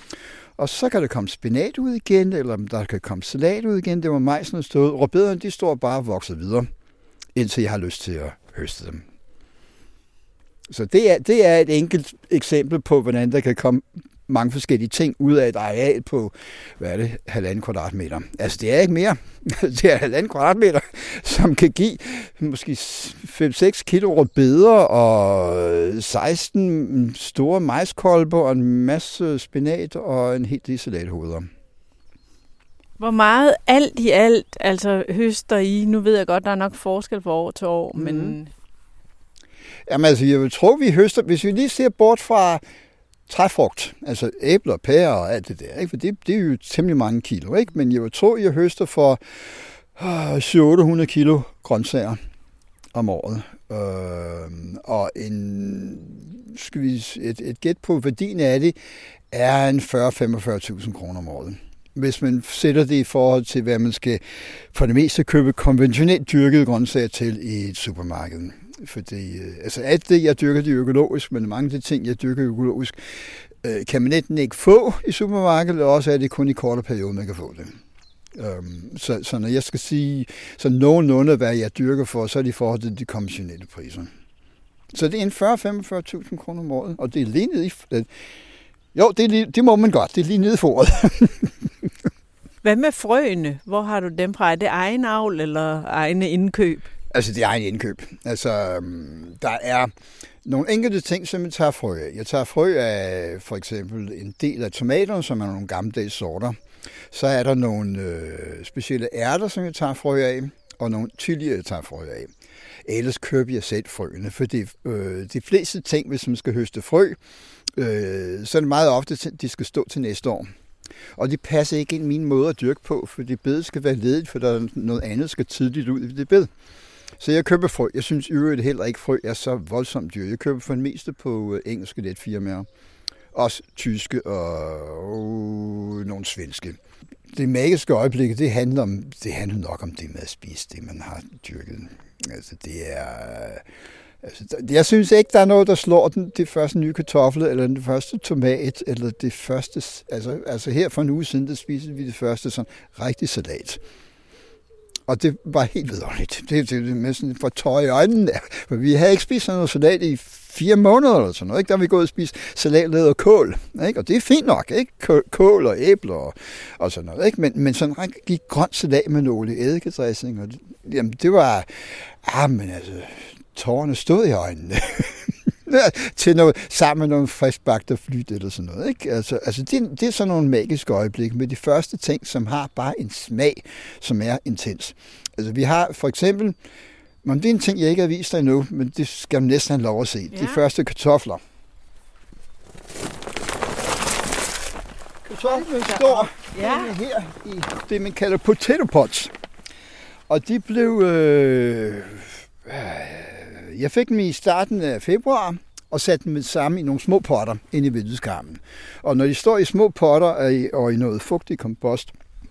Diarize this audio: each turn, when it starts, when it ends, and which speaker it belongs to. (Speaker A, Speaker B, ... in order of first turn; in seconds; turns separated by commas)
Speaker A: 0.6-6.7, Speaker A: 7.3-9.0, Speaker A: 10.7-31.5, Speaker B: 33.0-38.5, Speaker A: 37.9-38.4, Speaker A: 39.9-42.6, Speaker A: 43.3-52.2, Speaker A: 52.9-58.8, Speaker A: 59.3-77.8, Speaker A: 78.3-84.1, Speaker A: 84.9-88.1, Speaker A: 88.9-91.8, Speaker B: 92.6-96.9, Speaker A: 97.1-99.9, Speaker A: 100.4-106.6, Speaker A: 107.1-112.3, Speaker A: 112.8-117.2, Speaker A: 117.8-120.5, Speaker A: 121.2-126.5, Speaker A: 127.2-132.7, Speaker A: 133.3-136.8, Speaker A: 137.3-143.6, Speaker A: 144.2-153.8, Speaker A: 155.1-186.6, Speaker A: 187.2-191.4, Speaker B: 190.3-190.6, Speaker A: 195.2-199.3, Speaker B: 195.4-196.9, Speaker A: 200.3-212.1